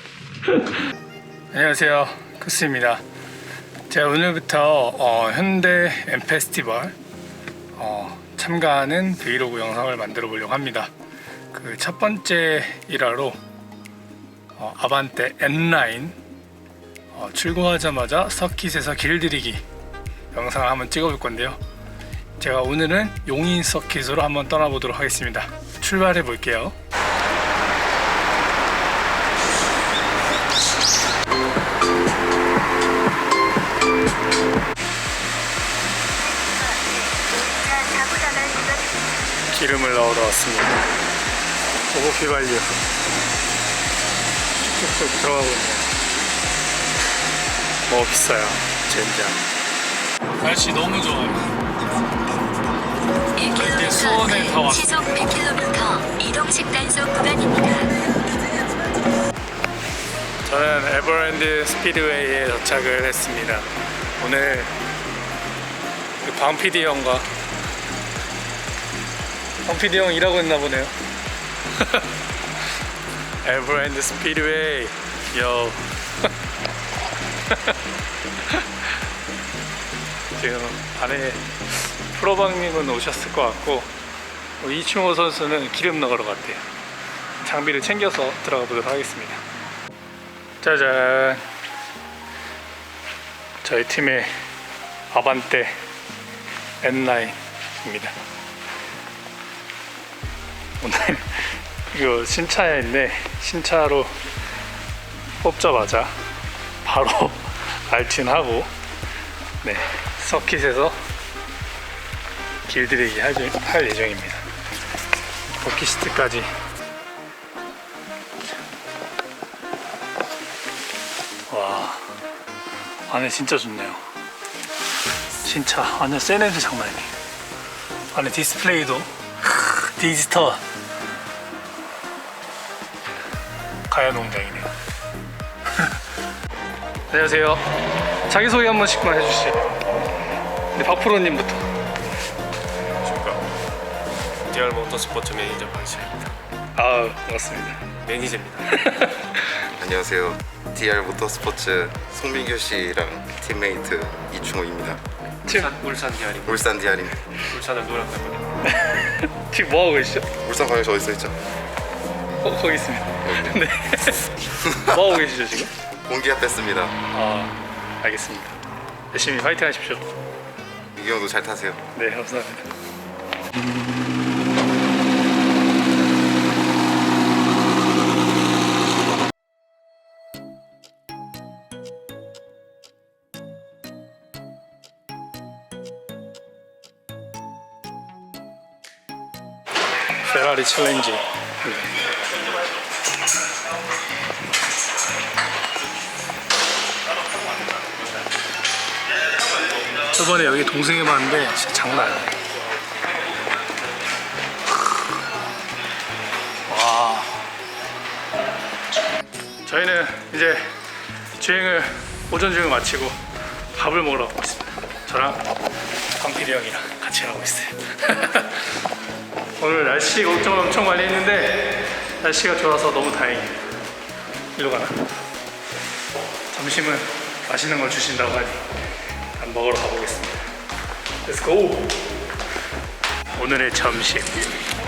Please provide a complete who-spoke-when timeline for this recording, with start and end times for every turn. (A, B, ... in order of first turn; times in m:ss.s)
0:01.5-0:03.0 A
0:03.9-0:07.0 A
0:07.8-0:10.9 A
0:11.5-0:13.4 A
0:14.6-0:16.2 A
0:17.1-0:19.6 A
0:20.3-0:21.6 A
0:22.4-0:26.7 A
0:36.5-0:38.8 B
0:39.5-0:40.8 A
0:41.9-0:42.7 A
0:44.6-0:45.9 A
0:47.9-0:49.4 A
0:50.4-0:51.5 A
0:53.5-0:55.3 A
0:54.8-0:57.9 B
1:00.4-1:03.7 A
1:04.2-1:04.7 A
1:06.2-1:07.3 A
1:09.6-1:10.9 A
1:13.4-1:15.8 A
1:20.3-1:23.9 A
1:24.6-1:26.6 A
1:27.4-1:29.4 A
1:30.6-1:31.4 A
1:33.6-1:34.3 A
1:35.1-1:35.8 A
1:36.8-1:38.2 A
1:40.8-1:44.1 A
1:45.4-1:46.2 A
1:46.8-1:48.7 A
1:49.6-1:51.0 A
1:52.6-1:54.4 A
1:55.6-1:56.5 A
2:01.5-2:02.2 A
2:03.1-2:04.0 A
2:05.4-2:07.1 A
2:08.1-2:10.6 A
2:13.9-2:14.7 A
2:17.1-2:17.7 A
2:18.3-2:19.8 A
2:20.7-2:21.6 A
2:23.0-2:23.4 C
2:24.5-2:26.3 C
2:26.7-2:27.8 A
2:28.0-2:28.8 C
2:28.7-2:29.4 A
2:29.8-2:35.0 D
2:35.4-2:38.6 C
2:35.4-2:35.7 A
2:36.4-2:37.1 D
2:38.6-2:40.3 A
2:40.4-2:41.4 D
2:42.4-2:45.7 A
2:43.2-2:43.6 D
2:46.1-2:46.9 D
2:47.1-2:48.6 A
2:49.1-2:50.0 A
2:50.9-2:51.8 D
2:51.9-2:52.7 A
3:10.2-3:12.0 A
3:20.0-3:22.3 A
3:26.7-3:27.4 A
3:29.6-3:30.8 A
3:31.4-3:33.2 A
3:33.7-3:35.4 A
3:36.2-3:38.6 A
3:39.6-3:43.6 A
3:44.6-3:45.0 A
3:46.5-3:48.6 A
3:49.4-3:50.4 A
3:51.2-3:52.0 A
3:53.4-3:54.3 A